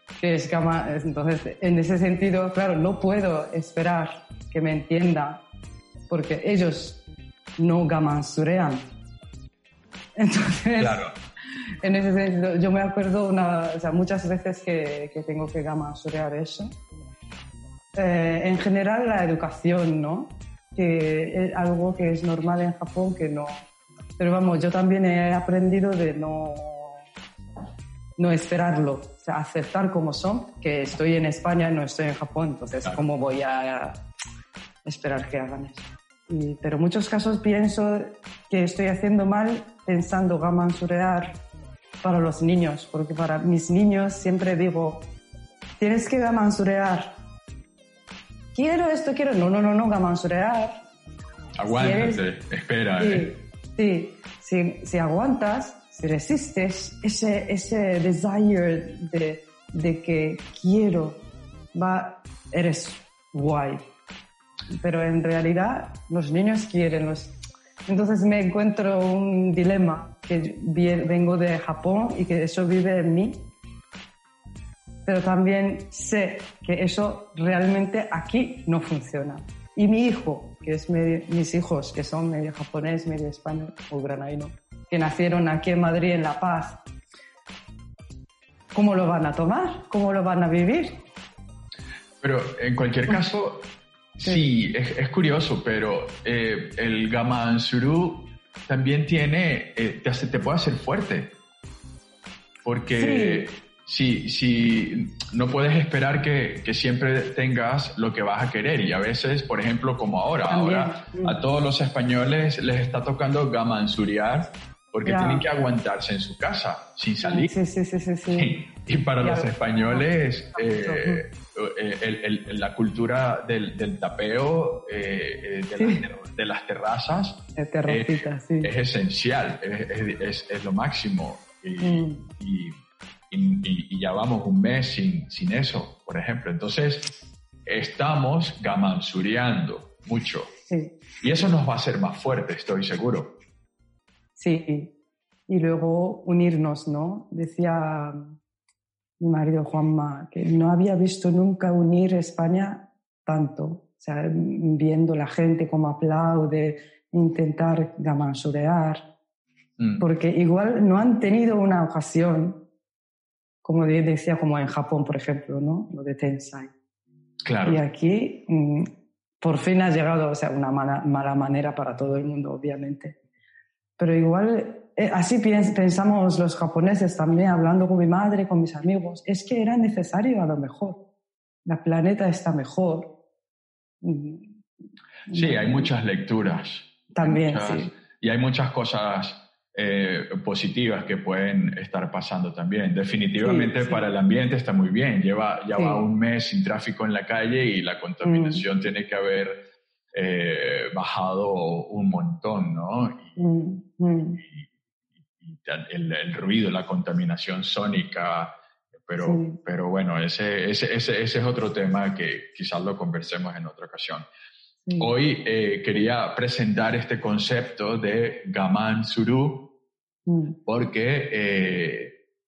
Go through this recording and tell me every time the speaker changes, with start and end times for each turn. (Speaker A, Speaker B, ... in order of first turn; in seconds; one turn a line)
Speaker A: 0.2-5.4
Speaker A: 6.1-7.0
Speaker A: 7.6-8.9
Speaker A: 10.2-11.0
Speaker B: 10.8-11.1
Speaker A: 11.8-16.7
Speaker A: 17.9-23.6
Speaker A: 24.2-27.0
Speaker A: 28.2-34.0
Speaker A: 34.8-41.4
Speaker A: 42.0-45.0
Speaker A: 45.8-47.1
Speaker A: 48.5-50.8
Speaker B: 51.6-53.3
Speaker A: 51.7-52.2
Speaker A: 53.0-61.2
Speaker A: 61.7-63.8
Speaker A: 64.7-67.3
Speaker A: 67.8-73.4
Speaker A: 75.0-86.8
Speaker A: 88.7-91.0
Speaker B: 92.2-93.6
Speaker B: 94.2-101.3
Speaker B: 102.6-117.5
Speaker A: 103.0-103.5
Speaker A: 110.5-111.4
Speaker A: 115.0-115.5
Speaker A: 117.2-118.6
Speaker B: 118.3-132.8
Speaker A: 119.2-120.0
Speaker A: 120.7-121.2
Speaker A: 125.8-126.0
Speaker A: 127.5-128.7
Speaker A: 131.8-132.2
Speaker B: 133.3-137.1
Speaker B: 137.7-140.5
Speaker A: 140.7-141.0
Speaker B: 141.2-143.3
Speaker A: 144.4-144.9
Speaker A: 145.5-148.3
Speaker A: 149.2-159.0
Speaker B: 159.8-160.1
Speaker A: 160.0-162.6
Speaker A: 163.6-166.7
Speaker B: 167.4-167.8
Speaker A: 167.6-168.9
Speaker A: 169.4-173.2
Speaker A: 174.0-181.0
Speaker A: 181.7-183.1
Speaker A: 184.0-184.6
Speaker A: 185.3-185.9
Speaker B: 185.3-199.6
Speaker A: 187.1-187.9
Speaker A: 193.4-194.0
Speaker A: 195.7-196.0
Speaker A: 198.2-198.6
Speaker B: 200.1-203.4
Speaker A: 203.4-204.4
Speaker B: 204.4-204.7
Speaker B: 205.4-214.2
Speaker A: 209.2-209.6
Speaker A: 214.8-215.1
Speaker B: 215.0-219.7
Speaker A: 220.3-220.6
Speaker B: 220.7-222.2